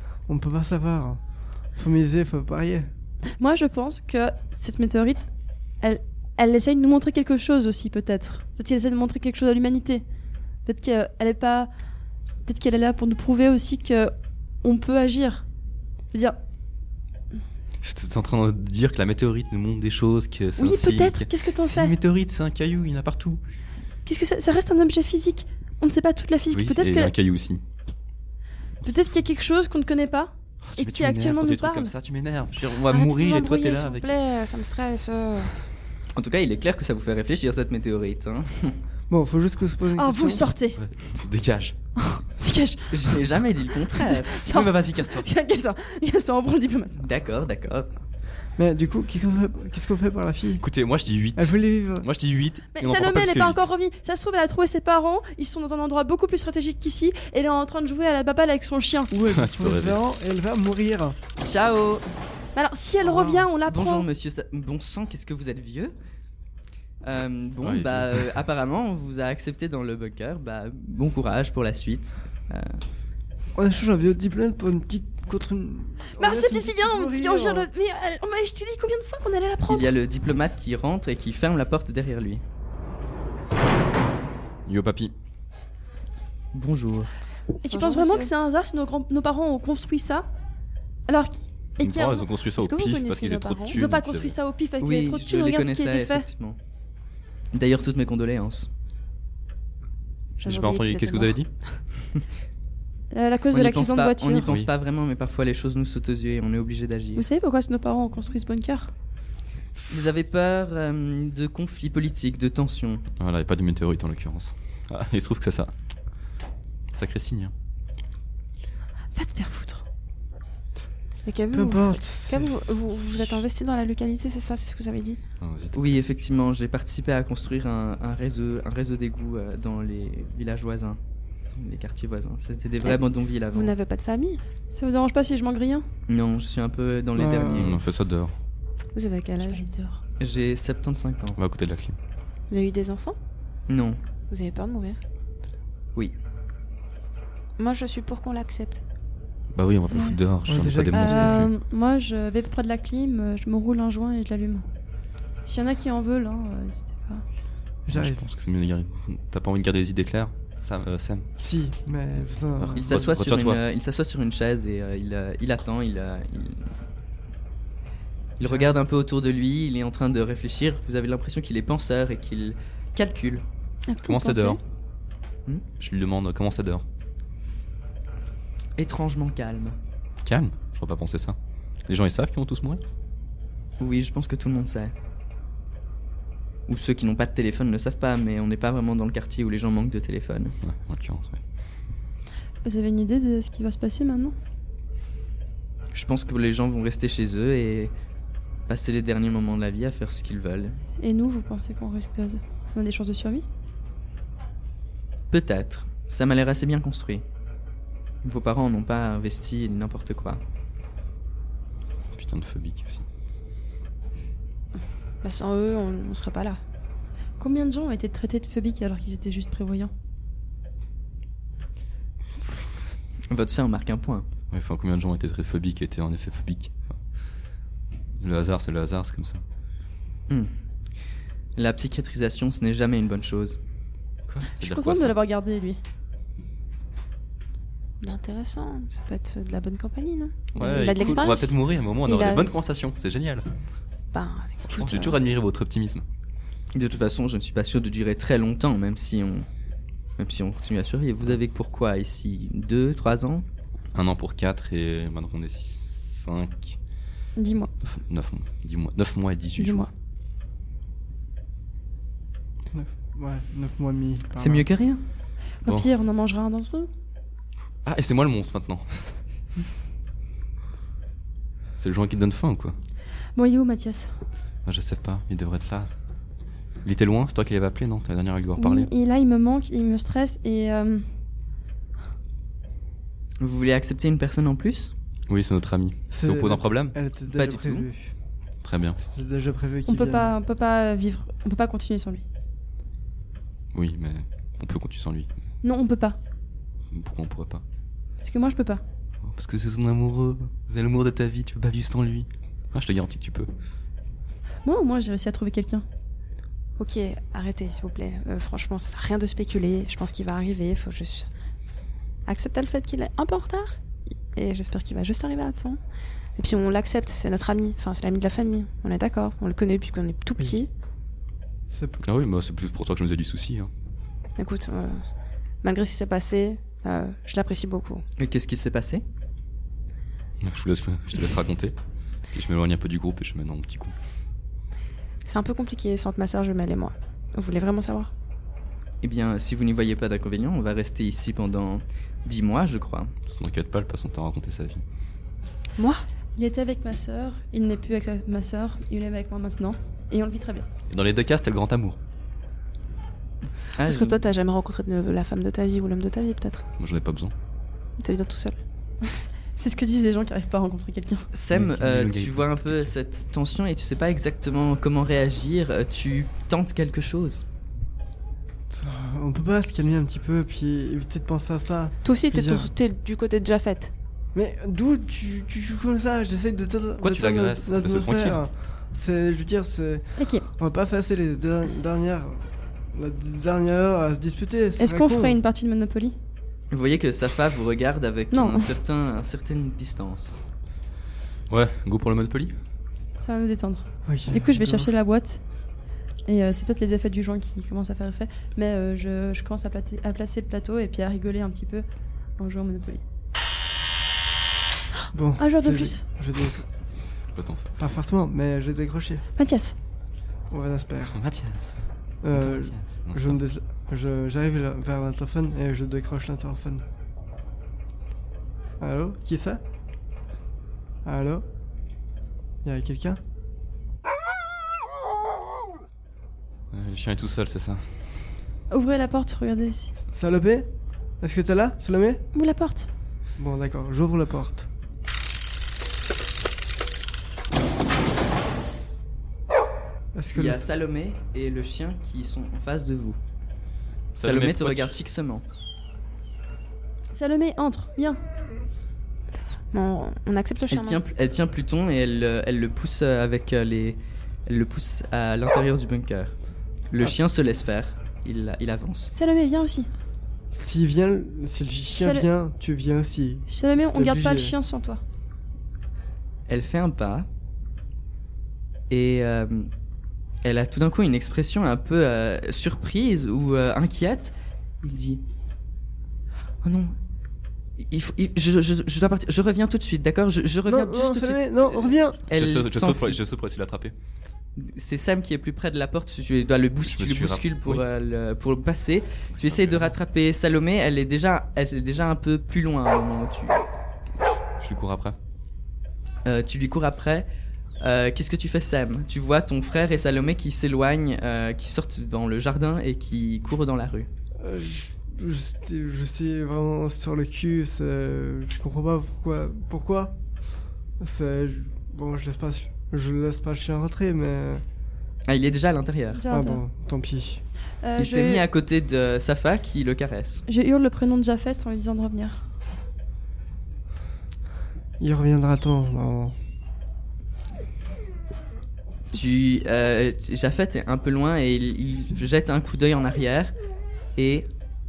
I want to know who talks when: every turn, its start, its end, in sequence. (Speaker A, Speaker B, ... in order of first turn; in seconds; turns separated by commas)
Speaker A: 0.3-1.2, Speaker A: 1.7-2.9, Speaker B: 3.4-5.3, Speaker B: 5.8-10.0, Speaker B: 10.7-11.7, Speaker B: 12.4-15.4, Speaker C: 17.8-23.4, Speaker B: 20.6-21.9, Speaker B: 24.1-27.1, Speaker C: 26.5-27.6, Speaker B: 28.8-31.9, Speaker C: 30.6-34.1, Speaker D: 32.9-35.5, Speaker E: 36.1-38.8, Speaker A: 39.1-40.5, Speaker B: 39.9-40.8, Speaker C: 40.8-41.7, Speaker B: 42.0-43.2, Speaker E: 42.9-44.4, Speaker B: 43.9-47.1, Speaker C: 44.4-45.3, Speaker E: 47.0-47.9, Speaker A: 48.6-50.6, Speaker C: 50.6-53.7, Speaker A: 51.4-52.1, Speaker B: 52.8-59.1, Speaker A: 59.1-61.2, Speaker C: 59.3-60.0, Speaker E: 61.4-62.1, Speaker B: 62.5-64.0, Speaker A: 63.0-63.5, Speaker E: 63.6-65.9, Speaker E: 67.0-72.8, Speaker C: 67.6-68.4, Speaker A: 73.5-77.7, Speaker B: 76.2-79.9, Speaker E: 79.7-82.4, Speaker C: 84.7-85.1, Speaker E: 86.5-87.1, Speaker B: 87.6-90.2, Speaker D: 87.7-88.3, Speaker B: 91.1-92.3, Speaker C: 91.8-94.3, Speaker D: 92.5-93.8, Speaker B: 93.7-96.2, Speaker E: 94.8-96.6, Speaker E: 97.5-98.7, Speaker C: 100.4-101.5, Speaker D: 100.4-101.8, Speaker B: 103.1-104.5, Speaker E: 103.5-107.2, Speaker C: 104.4-104.7, Speaker B: 107.2-108.9, Speaker E: 109.9-113.0, Speaker C: 113.2-115.7, Speaker C: 116.9-117.5, Speaker B: 119.1-119.8, Speaker D: 121.2-125.2, Speaker A: 121.5-123.5, Speaker C: 125.4-126.2, Speaker E: 125.7-131.0, Speaker E: 131.5-133.7, Speaker D: 133.5-134.4, Speaker B: 134.7-135.8, Speaker E: 136.1-137.8, Speaker A: 137.1-137.8, Speaker C: 137.5-138.3, Speaker D: 138.9-139.6, Speaker B: 139.4-140.0, Speaker E: 140.2-141.4, Speaker C: 141.3-142.0, Speaker D: 142.5-143.2, Speaker E: 143.7-144.0, Speaker D: 144.3-145.0, Speaker D: 147.6-148.8, Speaker C: 149.5-151.5, Speaker B: 149.9-150.2, Speaker A: 150.4-151.5, Speaker B: 150.9-154.6, Speaker B: 155.4-157.2, Speaker A: 157.8-158.2, Speaker C: 157.9-161.3, Speaker A: 161.4-163.0, Speaker C: 162.6-163.6, Speaker E: 162.8-166.7, Speaker E: 168.4-173.4, Speaker A: 168.4-168.7, Speaker B: 173.9-174.6, Speaker C: 174.0-174.6, Speaker C: 175.8-176.8, Speaker E: 178.8-179.8, Speaker C: 180.2-182.8, Speaker E: 183.8-184.9, Speaker E: 186.7-190.5, Speaker C: 190.6-191.4, Speaker B: 192.6-194.3, Speaker E: 195.9-197.9, Speaker E: 198.7-200.8, Speaker B: 201.0-203.4, Speaker E: 205.3-207.2, Speaker E: 208.2-210.4, Speaker C: 212.1-213.0, Speaker D: 215.2-216.6, Speaker B: 217.4-219.9, Speaker E: 223.3-224.3, Speaker C: 224.5-226.8, Speaker C: 228.2-229.4, Speaker E: 231.6-233.6, Speaker C: 234.3-235.2, Speaker B: 234.6-235.8, Speaker D: 238.0-242.5, Speaker C: 240.5-243.5, Speaker B: 240.6-241.2, Speaker D: 244.1-245.2, Speaker C: 244.6-246.0, Speaker E: 246.7-249.5, Speaker E: 250.2-253.4, Speaker C: 253.9-256.8, Speaker B: 257.4-257.7, Speaker C: 257.8-259.9, Speaker B: 259.6-259.9, Speaker A: 262.7-264.7, Speaker E: 264.4-265.0, Speaker B: 265.6-266.9, Speaker C: 265.6-265.9, Speaker C: 267.8-269.2, Speaker C: 271.8-272.8, Speaker B: 273.4-274.1, Speaker C: 274.6-275.9, Speaker C: 276.8-278.9, Speaker B: 278.6-281.1, Speaker E: 283.4-284.9, Speaker C: 285.3-286.9, Speaker A: 286.1-288.1, Speaker E: 287.3-287.9, Speaker C: 288.6-289.0, Speaker A: 289.0-290.3, Speaker B: 289.9-292.2, Speaker C: 293.7-295.3, Speaker B: 295.6-296.2, Speaker C: 296.9-297.6, Speaker B: 298.2-298.8, Speaker C: 299.2-303.5, Speaker B: 304.6-305.8, Speaker D: 306.8-311.3, Speaker D: 312.2-313.8, Speaker D: 314.3-315.8, Speaker D: 316.4-320.7, Speaker A: 321.7-322.0, Speaker C: 322.0-323.7, Speaker D: 324.4-325.0, Speaker D: 325.6-328.0, Speaker E: 328.2-329.0, Speaker C: 330.4-331.7, Speaker C: 332.3-333.9, Speaker D: 335.2-338.1, Speaker E: 339.0-343.1, Speaker C: 343.3-344.8, Speaker D: 345.8-346.0, Speaker B: 346.4-350.7, Speaker C: 350.9-352.0, Speaker E: 353.8-354.2, Speaker D: 353.8-356.6, Speaker C: 356.8-357.3, Speaker D: 358.0-358.6, Speaker B: 359.6-361.3, Speaker E: 361.3-367.4, Speaker C: 361.5-362.9, Speaker A: 368.7-372.7, Speaker D: 372.0-373.9, Speaker A: 374.3-385.4, Speaker C: 377.0-378.4, Speaker B: 380.2-380.4, Speaker B: 384.8-386.1, Speaker E: 386.7-390.4, Speaker B: 388.3-388.7, Speaker C: 391.5-392.6, Speaker B: 393.2-395.4, Speaker A: 394.1-394.9, Speaker B: 396.2-401.9, Speaker B: 402.4-403.0, Speaker A: 405.1-406.7, Speaker B: 405.4-406.0, Speaker C: 407.3-407.9, Speaker A: 407.8-409.2, Speaker B: 409.4-409.7, Speaker A: 410.5-411.2, Speaker C: 411.1-413.4, Speaker A: 412.2-416.8, Speaker A: 418.8-419.6, Speaker A: 421.0-421.4, Speaker A: 422.6-423.2, Speaker C: 426.7-428.2, Speaker B: 428.7-429.9, Speaker A: 430.1-430.7, Speaker A: 431.2-432.2, Speaker B: 432.3-432.9, Speaker A: 433.4-434.7, Speaker A: 440.1-440.7, Speaker E: 440.3-443.2, Speaker C: 444.1-445.0, Speaker E: 444.2-445.4, Speaker B: 447.1-448.2, Speaker D: 449.7-451.0, Speaker E: 450.7-456.3, Speaker E: 456.9-459.1, Speaker B: 459.1-459.9, Speaker A: 460.5-464.5, Speaker B: 461.9-462.2, Speaker B: 463.5-465.0, Speaker E: 466.5-467.3, Speaker E: 468.9-469.7, Speaker E: 470.4-475.2, Speaker E: 476.6-476.9, Speaker E: 477.8-483.2, Speaker A: 480.6-482.2, Speaker C: 482.3-483.9, Speaker E: 484.6-493.6, Speaker C: 486.8-487.8, Speaker C: 489.3-489.9, Speaker C: 494.2-495.2, Speaker E: 496.2-497.3, Speaker E: 497.8-504.1, Speaker A: 504.4-510.1, Speaker A: 511.0-514.6, Speaker E: 515.3-516.2, Speaker B: 516.2-516.6, Speaker A: 516.3-517.4, Speaker B: 517.8-518.4, Speaker E: 518.0-520.4, Speaker B: 520.5-522.4, Speaker A: 525.0-526.4, Speaker E: 529.1-533.5, Speaker E: 534.1-534.5